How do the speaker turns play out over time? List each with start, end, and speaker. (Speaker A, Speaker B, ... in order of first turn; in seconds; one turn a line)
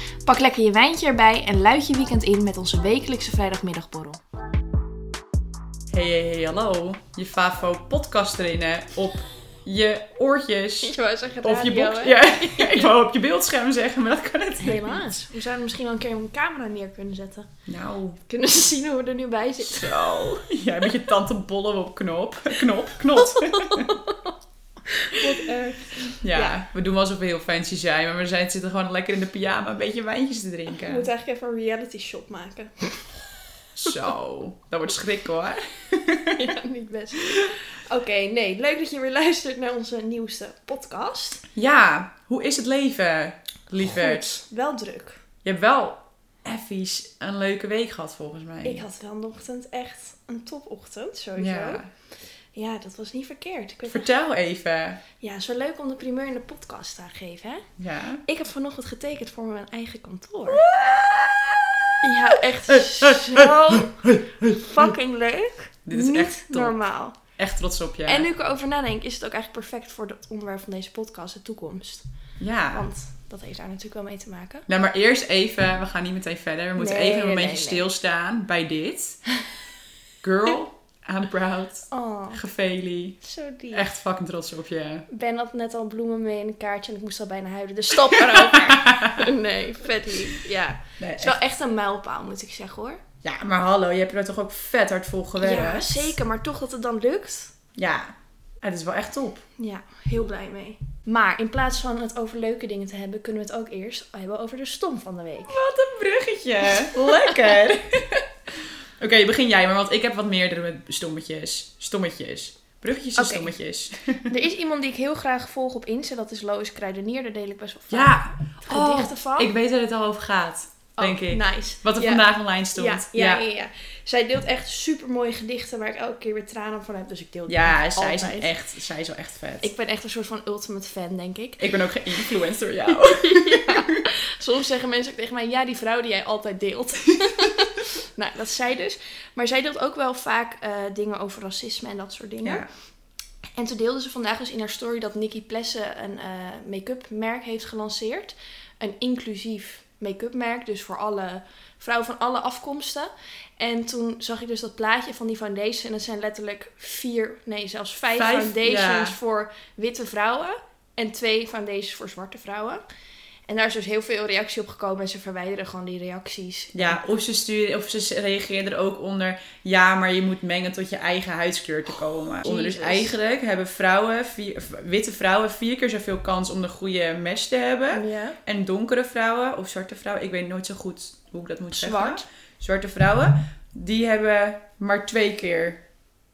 Speaker A: 0.2-4.2
Speaker B: 5.9-15.1
Speaker A: 10.8-12.9
Speaker A: 14.6-17.5
Speaker B: 17.6-18.2
Speaker A: 18.3-20.4
Speaker B: 19.6-24.0
Speaker A: 23.3-24.1
Speaker A: 24.9-26.6
Speaker B: 26.1-31.1
Speaker A: 30.8-33.1
Speaker B: 33.8-36.4
Speaker A: 36.3-41.4
Speaker B: 41.5-44.4
Speaker A: 43.8-45.2
Speaker B: 45.4-48.8
Speaker A: 48.6-51.8
Speaker B: 51.4-51.9
Speaker A: 52.5-54.1
Speaker B: 53.9-55.0
Speaker A: 55.2-57.6
Speaker B: 57.8-58.2
Speaker A: 58.2-60.6
Speaker B: 60.5-62.1
Speaker A: 62.0-67.2
Speaker B: 62.7-64.8
Speaker B: 65.8-66.8
Speaker B: 67.3-68.3
Speaker A: 68.0-72.0
Speaker B: 72.4-72.8
Speaker A: 72.7-74.6
Speaker B: 74.7-79.2
Speaker A: 76.8-77.8
Speaker B: 80.2-85.0
Speaker A: 81.9-82.4
Speaker A: 83.2-83.9
Speaker A: 85.1-93.0
Speaker B: 88.3-89.2
Speaker B: 91.0-91.4
Speaker B: 93.2-96.2
Speaker A: 95.4-97.5
Speaker B: 97.8-99.4
Speaker A: 99.6-105.6
Speaker B: 105.5-108.2
Speaker A: 107.0-107.5
Speaker B: 109.0-114.3
Speaker A: 113.2-113.5
Speaker A: 114.3-119.5
Speaker B: 117.9-123.4
Speaker A: 121.0-128.5
Speaker B: 127.5-129.7
Speaker A: 129.6-132.3
Speaker B: 131.6-133.8
Speaker A: 132.8-142.6
Speaker B: 142.4-142.7
Speaker A: 143.6-162.8
Speaker B: 158.1-159.2
Speaker A: 163.5-167.0
Speaker B: 166.7-185.8
Speaker A: 172.4-173.1
Speaker A: 177.9-178.4
Speaker A: 181.7-182.2